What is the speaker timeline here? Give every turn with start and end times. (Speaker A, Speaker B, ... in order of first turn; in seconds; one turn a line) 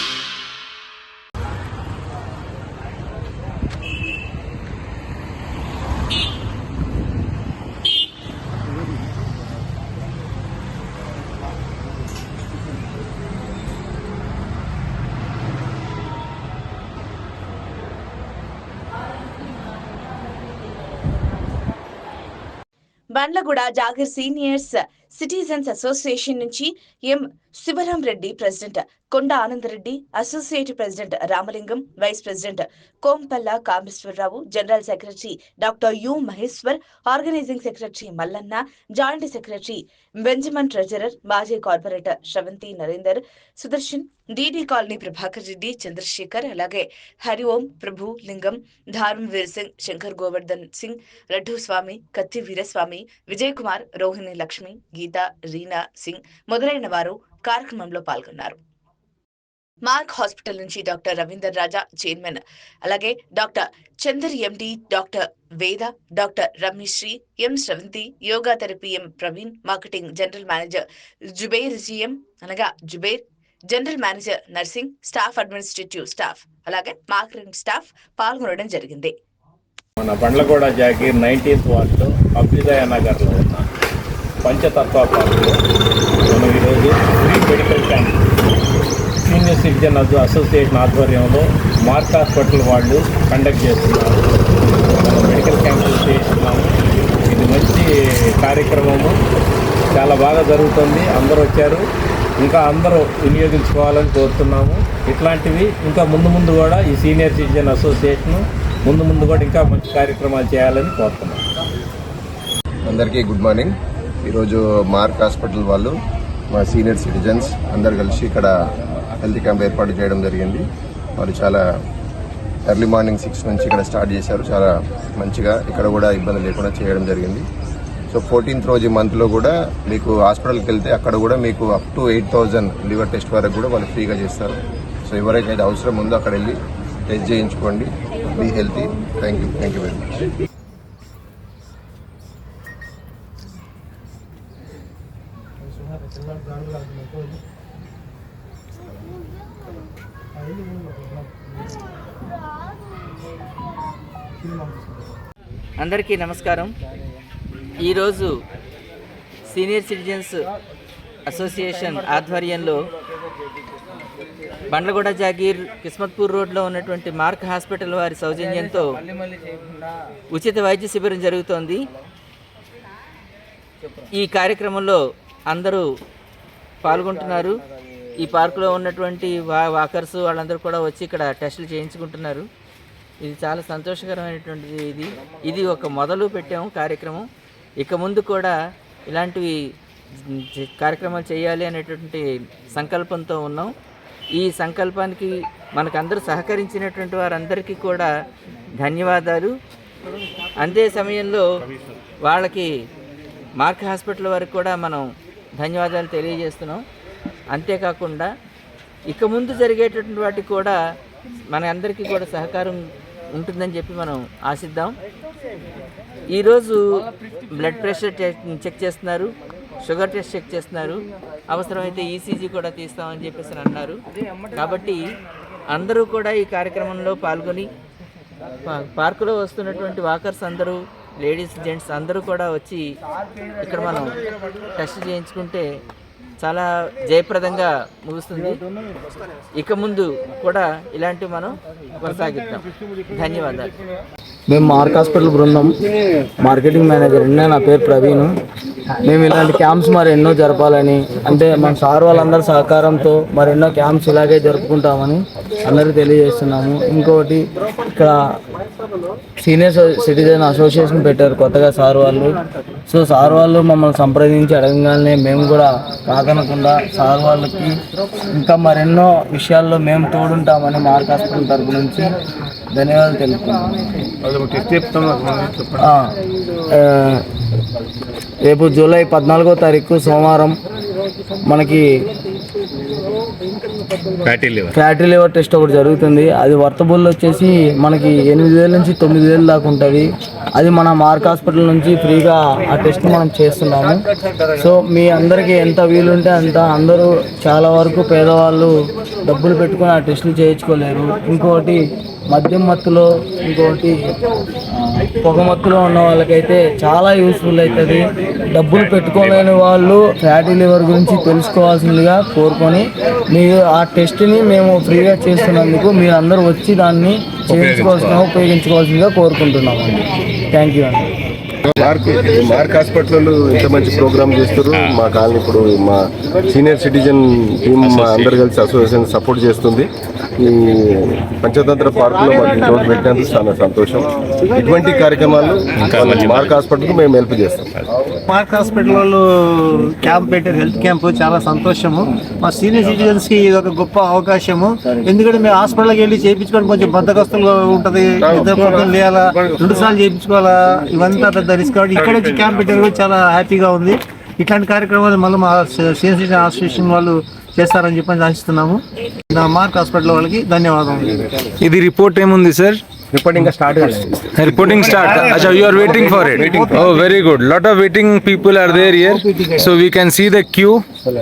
Speaker A: 23.1-58.6
Speaker A: 59.8-79.1
Speaker B: 80.0-83.6
Speaker B: 84.4-85.5
Speaker B: 86.3-88.2
Speaker B: 89.2-94.2
Speaker B: 95.0-96.7
Speaker B: 97.3-97.8
Speaker B: 98.4-99.1
Speaker B: 99.9-101.8
Speaker B: 102.4-111.4
Speaker C: 112.8-116.0
Speaker C: 116.5-118.5
Speaker C: 119.2-120.7
Speaker C: 121.2-121.6
Speaker C: 122.7-127.4
Speaker C: 128.1-140.3
Speaker D: 155.8-156.7
Speaker D: 157.8-158.3
Speaker D: 159.5-160.4
Speaker D: 161.3-162.8
Speaker D: 164.7-169.0
Speaker D: 170.3-171.8
Speaker D: 174.1-175.8
Speaker D: 176.8-177.6
Speaker D: 178.2-182.4
Speaker D: 183.2-187.3
Speaker D: 187.8-188.5
Speaker D: 189.1-189.6
Speaker D: 190.2-193.7
Speaker D: 194.3-198.1
Speaker D: 198.8-199.5
Speaker D: 200.6-201.4
Speaker D: 202.2-202.7
Speaker D: 203.6-205.0
Speaker D: 205.6-206.8
Speaker D: 207.5-208.3
Speaker D: 209.1-210.8
Speaker D: 211.5-212.8
Speaker D: 213.3-214.9
Speaker D: 216.3-216.8
Speaker D: 217.5-219.3
Speaker D: 219.8-221.0
Speaker D: 221.5-224.0
Speaker D: 224.5-225.0
Speaker D: 225.7-227.7
Speaker D: 228.7-232.9
Speaker D: 233.6-234.2
Speaker D: 234.7-235.7
Speaker D: 236.4-238.6
Speaker D: 239.5-243.7
Speaker E: 244.5-245.7
Speaker E: 246.4-248.3
Speaker E: 249.0-258.1
Speaker E: 259.4-262.4
Speaker E: 262.9-267.8
Speaker E: 268.3-272.1
Speaker E: 272.7-273.6
Speaker F: 274.3-275.7
Speaker E: 276.8-277.2
Speaker E: 278.4-280.5
Speaker E: 281.5-281.8
Speaker B: 284.2-284.7
Speaker E: 284.7-294.0
Speaker E: 294.6-301.8
Speaker E: 302.3-304.0
Speaker E: 304.8-321.0
Speaker G: 317.5-318.2
Speaker G: 321.8-329.9
Speaker B: 328.0-328.4
Speaker G: 330.4-337.7
Speaker B: 335.7-336.5
Speaker F: 338.3-361.2
Speaker H: 361.6-362.8
Speaker G: 363.1-366.9
Speaker H: 364.3-370.8
Speaker F: 364.6-367.1
Speaker F: 368.7-369.6